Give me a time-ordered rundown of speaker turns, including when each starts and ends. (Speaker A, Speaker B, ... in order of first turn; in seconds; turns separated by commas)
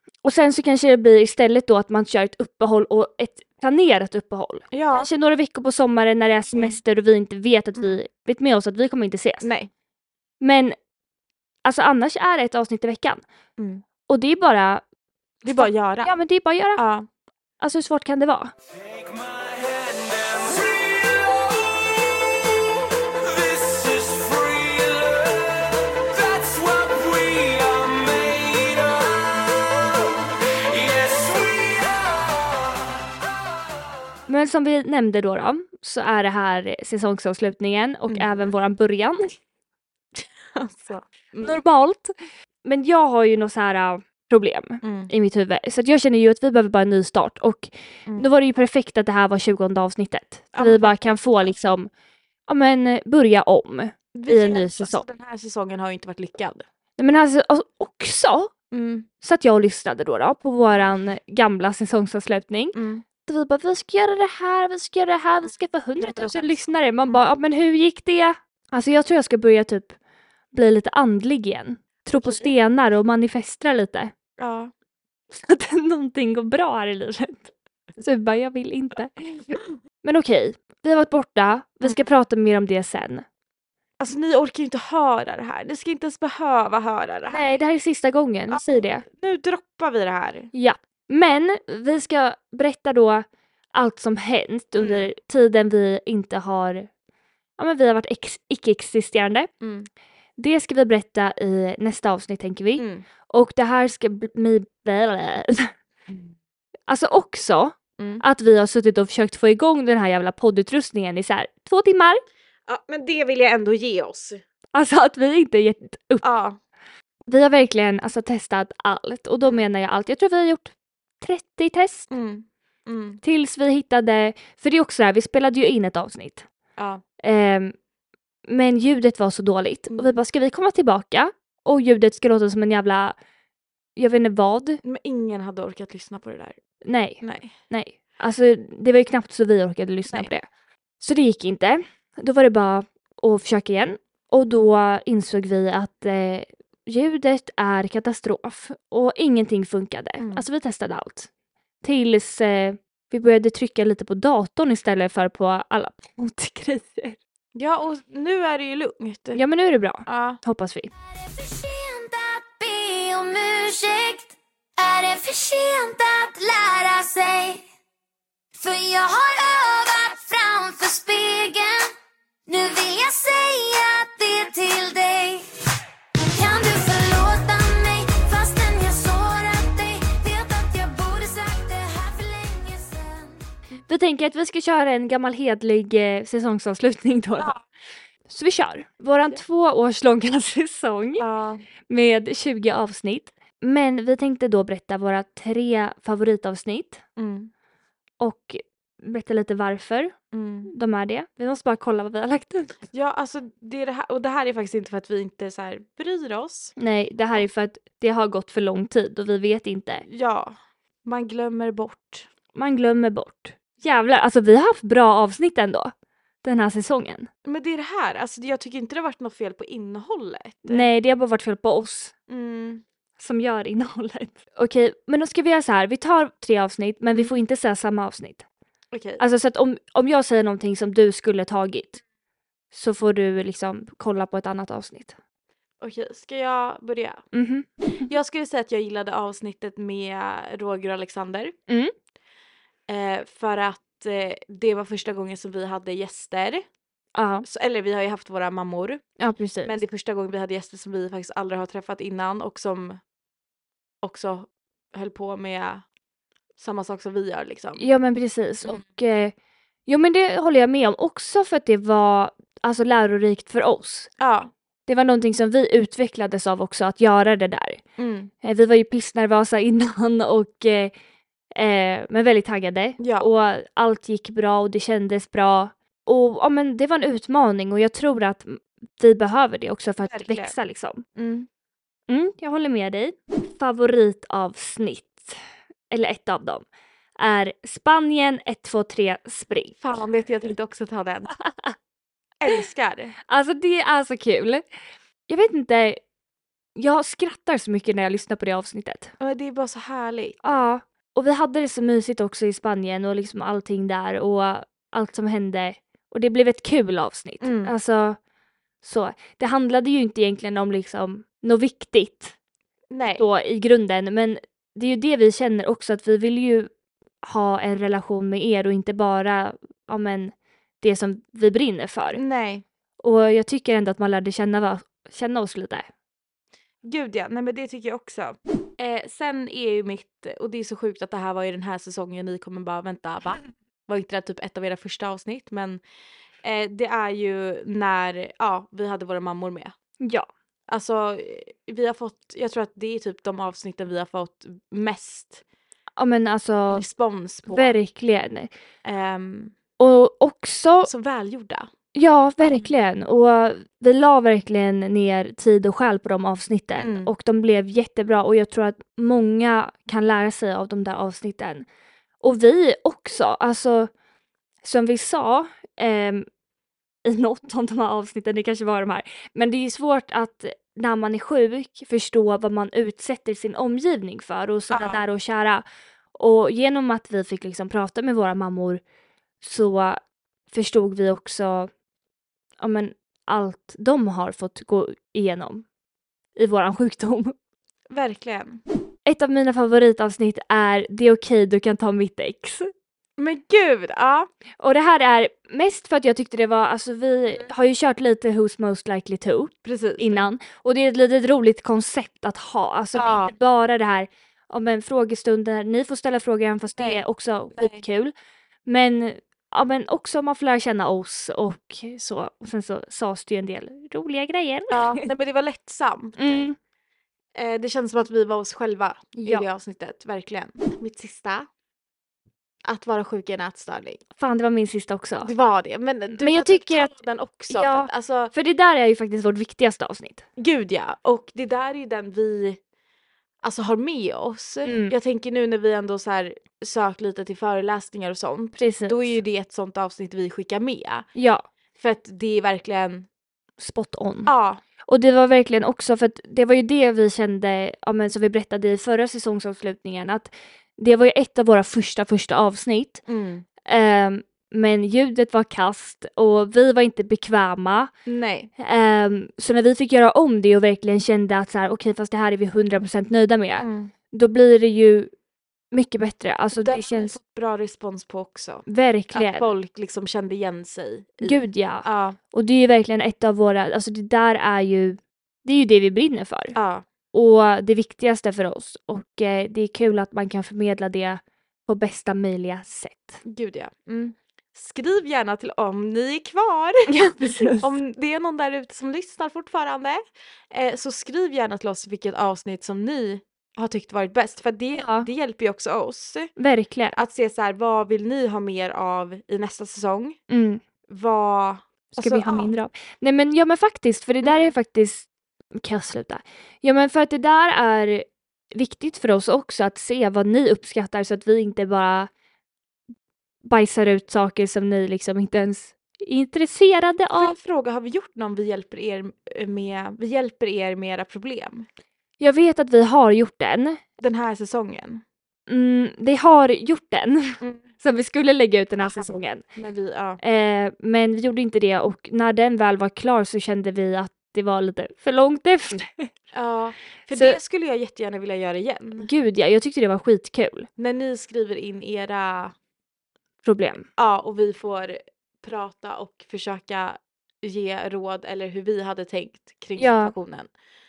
Speaker A: 0.2-9.5, Speaker B: 4.7-5.1, Speaker B: 9.4-9.7, Speaker A: 10.4-10.8, Speaker A: 11.6-13.2, Speaker B: 13.6-13.8, Speaker A: 14.1-14.8, Speaker B: 15.4-16.2, Speaker A: 15.5-16.8, Speaker B: 16.7-17.1, Speaker A: 17.6-18.5, Speaker B: 27.6-27.9, Speaker B: 30.8-31.7, Speaker A: 34.3-39.3, Speaker B: 38.1-38.4, Speaker B: 40.5-41.6, Speaker A: 41.4-42.1, Speaker A: 42.6-51.9, Speaker B: 44.8-45.1, Speaker B: 50.5-51.2, Speaker A: 52.5-55.0, Speaker B: 54.1-56.6, Speaker A: 57.0-58.5, Speaker B: 58.7-59.0, Speaker A: 59.2-70.0, Speaker B: 62.7-63.0, Speaker B: 66.0-66.5, Speaker A: 70.5-74.1, Speaker B: 72.2-72.5, Speaker B: 74.4-74.7, Speaker A: 75.3-83.2, Speaker B: 84.0-87.4, Speaker A: 87.3-89.0, Speaker B: 88.5-90.5, Speaker A: 90.5-96.9, Speaker B: 94.8-95.0, Speaker A: 97.6-99.5, Speaker B: 99.6-99.9, Speaker A: 100.4-105.7, Speaker B: 102.8-103.0, Speaker A: 106.9-112.2, Speaker B: 108.0-108.2, Speaker B: 112.7-114.4, Speaker A: 114.7-116.2, Speaker B: 116.2-116.6, Speaker A: 117.3-122.1, Speaker B: 122.1-123.2, Speaker A: 123.2-126.5, Speaker B: 126.8-127.0, Speaker A: 127.2-127.7, Speaker A: 128.5-133.2, Speaker B: 129.9-130.1, Speaker A: 133.9-134.8, Speaker B: 134.8-136.6, Speaker A: 136.8-140.5, Speaker B: 137.2-137.5, Speaker A: 141.0-151.3, Speaker B: 150.2-150.4, Speaker A: 151.8-157.2, Speaker B: 157.5-159.4, Speaker A: 159.3-160.9, Speaker B: 160.1-160.4, Speaker C: 161.1-167.6, Speaker C: 168.6-171.9, Speaker C: 172.5-175.5, Speaker C: 176.2-183.3, Speaker A: 183.9-187.5, Speaker A: 188.3-191.2, Speaker B: 191.2-191.6, Speaker A: 191.9-197.0, Speaker B: 197.2-197.5, Speaker A: 198.2-200.2, Speaker B: 200.3-200.7, Speaker A: 200.7-202.7, Speaker B: 202.9-206.7, Speaker A: 206.8-210.0, Speaker B: 210.1-210.5, Speaker B: 211.0-212.3, Speaker A: 212.5-217.3, Speaker B: 217.4-220.9, Speaker A: 220.7-222.1, Speaker B: 222.3-222.8, Speaker A: 223.2-228.4, Speaker B: 228.9-229.2, Speaker A: 229.2-232.0, Speaker A: 232.7-235.2, Speaker B: 235.8-237.2, Speaker A: 237.3-238.1, Speaker B: 238.0-241.5, Speaker B: 242.9-246.6, Speaker A: 247.1-247.4, Speaker B: 247.4-249.0, Speaker A: 249.2-249.8, Speaker B: 249.6-253.0, Speaker B: 254.0-255.8, Speaker B: 256.6-257.9, Speaker A: 257.8-259.3, Speaker A: 259.9-264.1, Speaker B: 264.2-264.5, Speaker A: 264.9-267.8, Speaker B: 268.0-268.3, Speaker A: 268.4-270.9, Speaker A: 271.5-281.0, Speaker B: 273.0-273.3, Speaker B: 280.0-280.5, Speaker B: 281.1-281.5, Speaker A: 282.1-285.4, Speaker A: 285.9-286.6, Speaker A: 287.2-289.8, Speaker B: 289.8-291.3, Speaker A: 291.5-291.7, Speaker B: 292.4-293.1, Speaker A: 293.3-294.6, Speaker A: 295.3-296.0, Speaker A: 296.8-299.1, Speaker B: 299.2-300.4, Speaker A: 300.4-308.2, Speaker B: 307.4-307.7, Speaker A: 308.8-312.3, Speaker B: 312.9-313.2, Speaker A: 313.2-316.7, Speaker A: 317.2-322.2, Speaker B: 322.1-322.6, Speaker A: 323.0-325.9, Speaker B: 326.8-335.8, Speaker B: 336.4-339.7, Speaker A: 340.0-340.3, Speaker B: 340.7-345.4, Speaker A: 346.0-346.8, Speaker B: 346.7-347.8, Speaker A: 347.5-348.5, Speaker B: 348.8-349.5, Speaker A: 349.8-350.9, Speaker B: 350.8-351.7, Speaker A: 351.9-361.6, Speaker B: 356.8-357.1, Speaker A: 362.2-363.9, Speaker A: 364.6-366.3, Speaker A: 367.0-375.6, Speaker B: 374.7-375.0, Speaker A: 376.1-378.8, Speaker A: 379.4-380.0, Speaker A: 380.5-381.7, Speaker A: 382.6-385.6, Speaker A: 386.4-387.3, Speaker B: 387.9-388.6, Speaker A: 389.1-392.7, Speaker B: 393.2-394.3, Speaker A: 394.6-408.1, Speaker B: 399.6-400.2, Speaker B: 402.9-403.3, Speaker B: 407.5-407.8, Speaker A: 408.6-415.1, Speaker B: 414.7-416.4, Speaker A: 416.2-416.6, Speaker B: 417.3-421.5, Speaker B: 422.6-424.0, Speaker A: 424.2-425.3, Speaker B: 425.2-428.3, Speaker A: 426.2-426.9, Speaker A: 427.5-430.2, Speaker B: 430.4-432.6, Speaker B: 433.4-441.1, Speaker A: 434.6-434.9, Speaker A: 438.6-439.1, Speaker A: 441.1-441.4, Speaker B: 441.8-443.1, Speaker A: 443.6-444.3, Speaker B: 444.2-444.6, Speaker A: 444.9-453.0, Speaker B: 453.1-453.4, Speaker A: 453.6-457.9, Speaker B: 458.1-458.5, Speaker A: 458.6-465.1, Speaker B: 463.6-463.9, Speaker A: 465.7-467.1, Speaker B: 466.5-472.2, Speaker A: 468.7-469.5, Speaker A: 471.2-476.6, Speaker B: 476.5-476.8, Speaker A: 477.1-483.2, Speaker B: 483.2-496.3, Speaker A: 486.9-487.7, Speaker A: 494.8-495.1, Speaker A: 496.4-497.0, Speaker B: 496.9-500.2, Speaker A: 500.3-500.6, Speaker B: 500.9-502.5, Speaker A: 501.9-512.1, Speaker A: 513.4-517.4, Speaker B: 517.1-521.7, Speaker A: 522.2-523.8, Speaker B: 524.0-525.0, Speaker A: 525.5-529.4, Speaker B: 529.5-530.2, Speaker A: 530.2-536.1, Speaker B: 536.3-539.1, Speaker A: 537.1-537.4, Speaker A: 539.0-540.7, Speaker B: 540.8-542.5, Speaker A: 543.4-543.9, Speaker B: 544.0-550.5, Speaker A: 549.8-550.1